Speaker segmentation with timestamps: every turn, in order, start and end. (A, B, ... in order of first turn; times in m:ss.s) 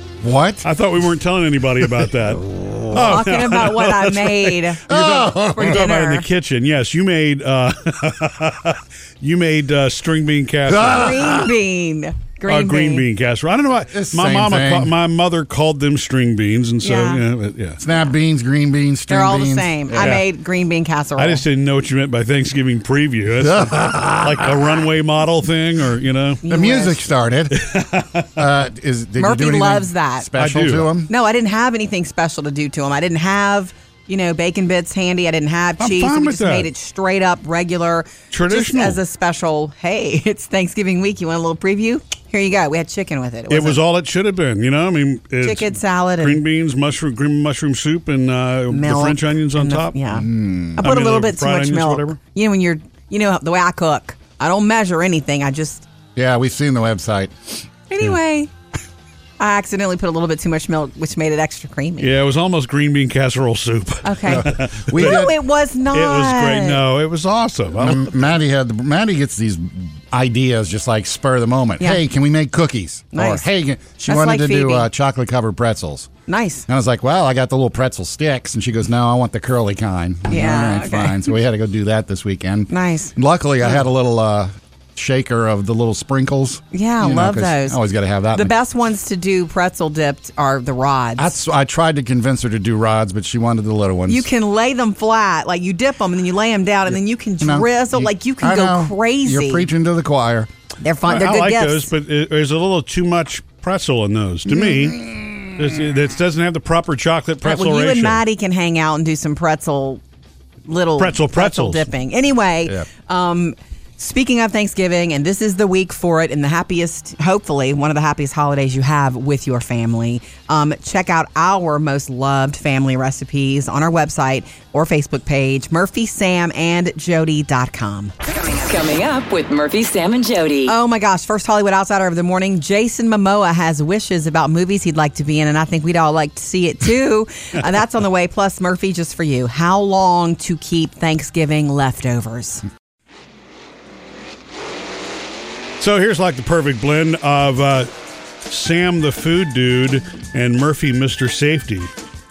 0:00.2-0:00.7 A
0:00.6-0:11.2 B
0:03.0-0:06.2 C
0:04.9-0:05.8 A
0:10.7-0:11.5 A
0:10.9-0:13.0 C
0:12.5-0:17.8 B
0:13.9-0:14.9 A
0:16.8-0:17.2 C
0:17.8-0:20.1 A
0:19.1-0:21.4 C
0:19.9-0:20.3 B
0:21.2-0:26.4 B
0:23.4-0:24.7 A
0:26.4-0:27.0 C
0:26.5-0:27.6 A
0:27.5-0:28.3 B
0:28.4-0:31.1 A
0:29.2-0:30.3 C
0:30.4-0:30.9 B
0:31.1-0:43.8 C
0:35.8-0:36.7 B
0:38.3-0:39.0 B
0:43.5-0:50.0 B
0:45.4-0:46.4 C
0:48.7-0:55.9 C
0:50.1-0:50.9 A
0:50.8-0:52.2 B
0:56.2-0:57.7 A
0:57.9-0:58.5 C
0:59.4-1:02.1 C
1:02.0-1:05.3 B
1:04.0-1:06.8 C
1:04.3-1:05.3 A
1:05.9-1:08.3 B
1:07.8-1:16.1 A
1:13.1-1:13.4 C
1:14.1-1:14.9 C
1:16.3-1:16.6 C
1:16.7-1:28.5 A
1:20.3-1:21.2 C
1:22.7-1:23.1 C
1:26.7-1:27.8 C
1:28.3-1:31.4 C
1:31.2-1:34.3 A
1:34.1-1:39.7 C
1:37.4-1:40.5 A
1:40.8-1:41.9 C
1:41.1-1:48.2 B
1:44.5-1:45.5 A
1:47.4-1:50.0 C
1:50.7-2:08.1 C
1:51.0-1:51.9 B
2:08.3-2:10.8 D
2:10.7-2:22.6 C
2:25.8-2:27.9 B
2:28.5-2:31.9 B